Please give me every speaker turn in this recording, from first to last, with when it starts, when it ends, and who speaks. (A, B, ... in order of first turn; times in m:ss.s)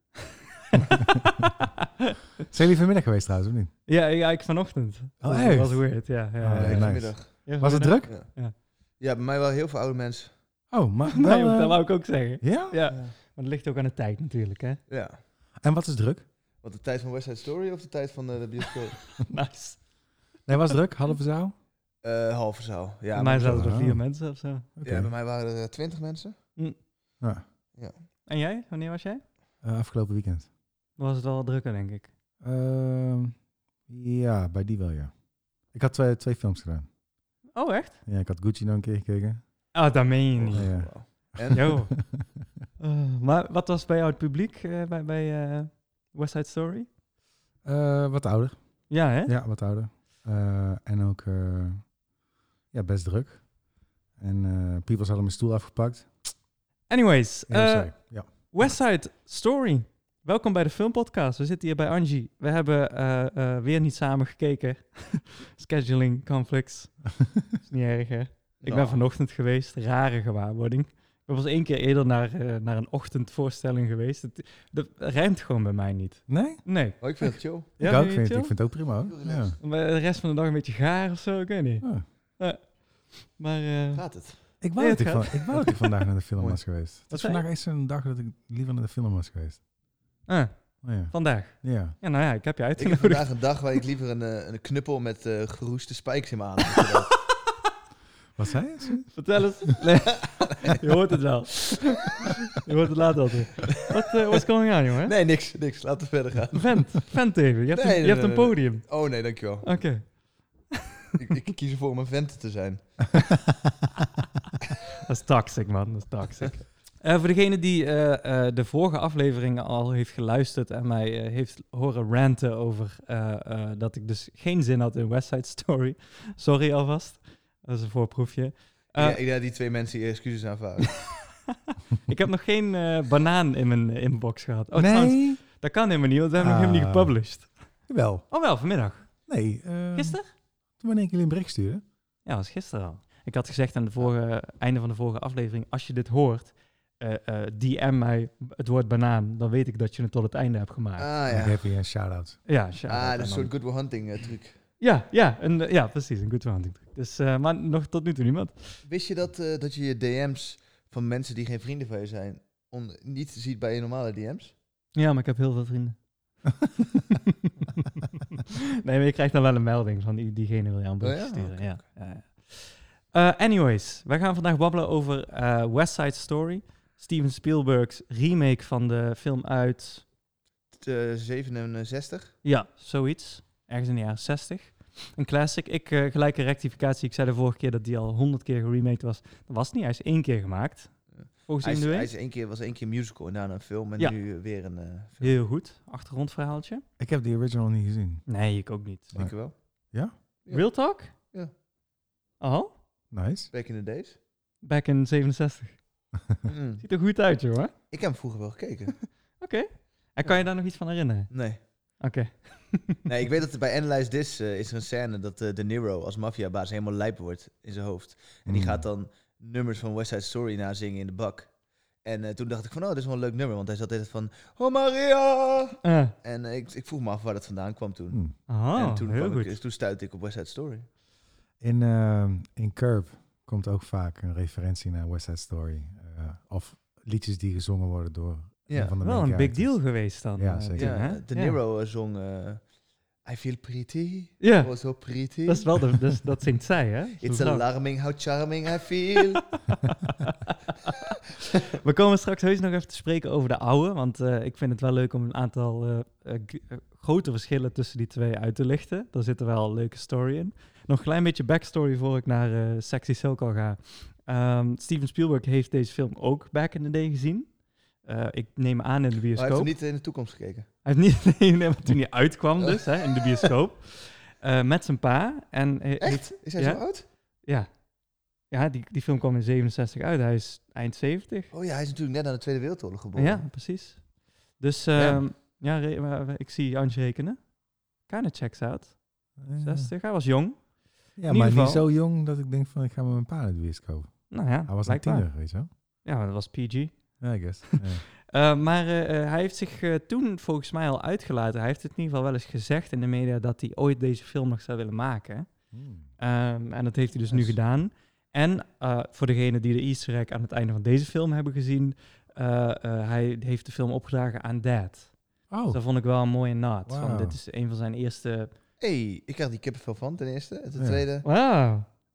0:00.7-0:01.5 A
0:00.7-0:01.5 B
0:02.5-0:03.7 A
0:03.9-0:08.5 B
0:05.2-0:08.1 A
0:06.5-0:07.5 C
0:08.0-0:08.3 C
0:09.0-0:10.3 C
0:10.7-0:12.8 A
0:11.1-0:14.8 B
0:12.9-0:13.1 C
0:14.9-0:15.2 C
0:15.6-0:16.2 A
0:16.6-0:19.2 C
0:19.2-0:19.9 B
0:20.5-0:21.5 A
0:22.0-0:23.7 C
0:23.1-0:24.7 B
0:23.4-0:24.1 A
0:24.8-0:25.1 A
0:24.8-0:26.4 C
0:28.2-0:29.2 B
0:29.6-0:30.5 A
0:31.0-0:32.1 B
0:32.4-0:33.4 A
0:33.9-0:35.1 A
0:35.7-0:36.9 A
0:37.5-0:38.0 B
0:38.0-0:39.4 A
0:39.7-0:40.9 B
0:40.4-0:41.8 C
0:40.5-0:42.3 A
0:41.5-0:41.9 B
0:42.8-0:46.9 B
0:47.6-0:51.9 A
0:48.9-0:49.3 B
0:52.7-0:53.5 A
0:54.1-0:56.2 A
0:56.9-1:18.6 B
0:57.5-0:58.3 A
1:08.6-1:09.0 C
1:16.3-1:16.6 A
1:17.0-1:17.7 C
1:17.8-1:19.6 A
1:19.0-1:19.6 C
1:19.6-1:26.0 B
1:23.9-1:24.4 C
1:24.6-1:29.6 A
1:26.4-1:26.6 C
1:27.1-1:27.4 B
1:30.3-1:33.6 B
1:30.8-1:32.0 A
1:32.8-1:37.3 C
1:38.4-1:39.4 A
1:39.1-1:45.1 B
1:40.1-1:40.8 C
1:45.0-1:47.0 C
1:46.5-1:48.9 B
1:47.7-1:49.8 C
1:49.6-1:51.2 B
1:51.2-1:53.1 C
1:54.9-2:09.2 B
2:09.0-2:11.0 C
2:11.0-2:17.5 B
2:14.8-2:15.4 A
2:16.4-2:17.1 A
2:17.9-2:18.2 A
2:18.3-2:19.3 B
2:19.3-2:20.2 A
2:19.9-2:20.3 B
2:20.8-2:21.8 A
2:22.2-2:31.1 B
2:31.0-2:31.6 C
2:31.3-2:32.4 A
2:32.4-2:33.5 B
2:32.9-2:34.6 C
2:34.8-2:38.8 B
2:38.8-2:44.5 C
2:44.9-2:46.0 B
2:48.8-3:00.0 B
2:51.0-2:51.8 C
3:00.7-3:02.3 C
3:02.4-3:12.1 B
3:11.2-3:15.4 C
3:15.2-3:16.8 B
3:17.0-3:18.2 A
3:18.2-3:19.1 B
3:19.1-3:19.5 C
3:20.4-3:21.5 C
3:20.5-3:21.1 B
3:22.4-3:22.7 B
3:23.1-3:23.5 A
3:23.5-3:24.2 C
3:24.6-3:25.8 B
3:26.4-3:26.9 C
3:26.8-3:27.7 B
3:27.9-3:29.1 C
3:29.4-3:33.0 B
3:31.3-3:31.6 C
3:33.1-3:41.5 C
3:38.4-3:38.8 A
3:42.0-3:48.2 C
3:45.8-3:46.1 B
3:48.1-3:48.4 A
3:48.5-3:49.6 B
3:48.7-3:50.9 C
3:51.6-4:01.0 A
3:58.7-3:58.9 C
3:59.0-4:01.6 B
4:00.8-4:02.6 C
4:03.2-4:06.0 C
4:04.4-4:07.6 B
4:07.2-4:09.6 C
4:10.2-4:11.0 B
4:11.8-4:29.7 B
4:29.4-4:30.7 C
4:30.8-4:36.9 B
4:32.6-4:33.5 C
4:36.0-4:37.0 C
4:37.4-4:37.8 B
4:38.5-4:41.5 B
4:41.5-4:43.4 C
4:43.2-4:51.9 B
4:45.0-4:45.2 C
4:49.4-4:49.9 A
4:51.2-4:55.7 A
4:54.3-5:05.6 B
4:57.2-4:58.1 A
5:05.7-5:06.1 A
5:06.2-5:15.1 B
5:15.5-5:15.8 A
5:15.7-5:18.5 B
5:16.9-5:17.4 A
5:18.8-5:21.3 C
5:20.8-5:21.0 A
5:21.2-5:21.9 B